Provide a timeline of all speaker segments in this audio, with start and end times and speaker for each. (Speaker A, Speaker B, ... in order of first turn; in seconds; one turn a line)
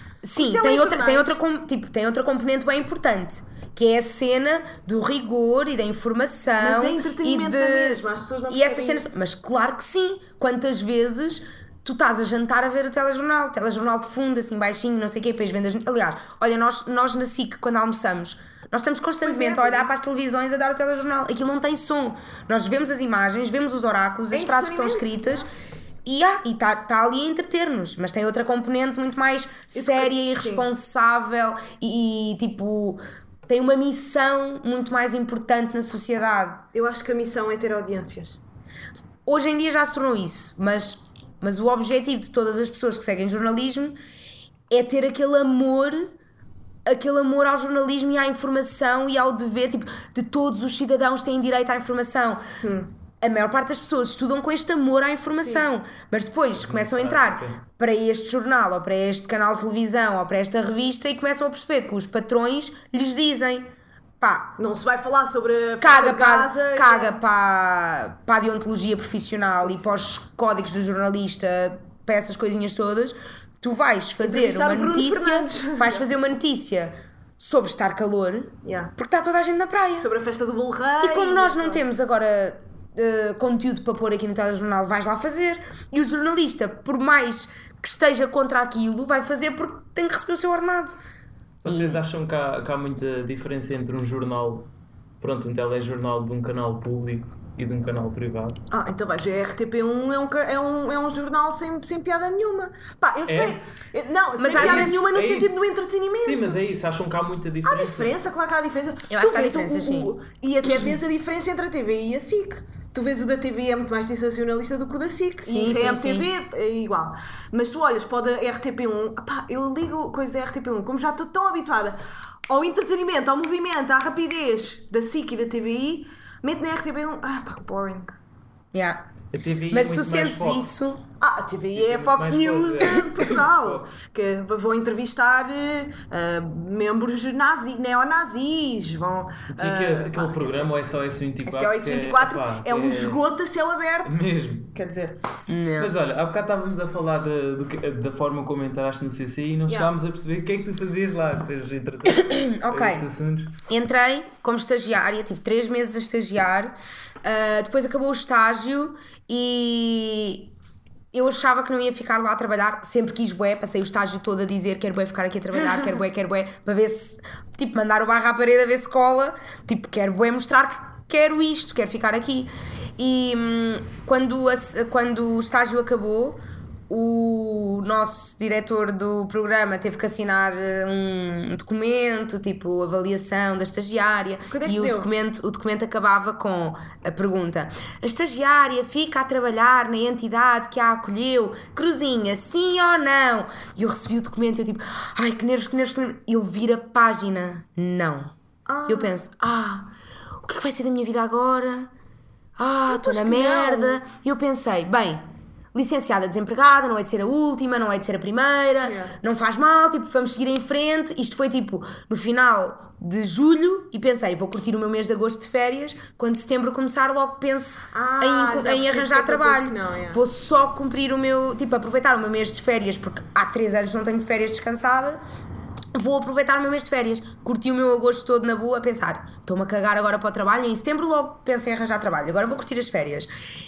Speaker A: 0.2-25.5
Speaker B: 0.3-1.4
Speaker B: 6.6-9.2
Speaker B: 19.2-19.9
Speaker B: 24.3-25.4
Speaker A: 26.1-36.6
Speaker B: 29.7-30.7
Speaker B: 36.7-38.4
Speaker A: 39.3-44.0
Speaker A: 44.7-46.1
Speaker A: 46.9-52.4
Speaker B: 52.6-52.9
Speaker A: 53.2-63.7
Speaker B: 55.3-55.7
Speaker C: 56.5-57.6
Speaker A: 64.2-64.6
Speaker B: 64.6-67.2
Speaker A: 65.8-80.1
Speaker B: 74.2-76.1
Speaker B: 78.6-78.9
Speaker B: 80.0-81.9
Speaker A: 81.0-91.0
Speaker A: 91.6-92.0
Speaker C: 91.6-94.7
Speaker C: 95.2-98.6
Speaker B: 98.7-106.6
Speaker C: 103.3-103.6
Speaker A: 104.4-105.0
Speaker C: 104.5-105.6
Speaker C: 106.2-108.2
Speaker B: 107.6-128.2
Speaker A: 109.1-110.1
Speaker A: 115.4-116.3
Speaker A: 128.7-129.1
Speaker C: 129.3-130.7
Speaker A: 129.7-131.0
Speaker B: 131.2-140.7
Speaker C: 131.7-133.9
Speaker C: 139.5-143.2
Speaker B: 141.5-144.2
Speaker C: 144.1-144.7
Speaker B: 144.7-145.2
Speaker A: 145.5-145.9
Speaker C: 145.8-153.6
Speaker A: 152.1-153.1
Speaker A: 153.7-160.5
Speaker A: 161.1-198.3
Speaker B: 184.5-185.1
Speaker B: 198.7-199.2
Speaker A: 198.9-199.9
Speaker A: 200.4-201.9
Speaker A: 202.6-205.2
Speaker B: 202.9-204.0
Speaker A: 205.7-225.2
Speaker B: 208.8-209.2
Speaker B: 217.9-220.2
Speaker A: 225.9-233.3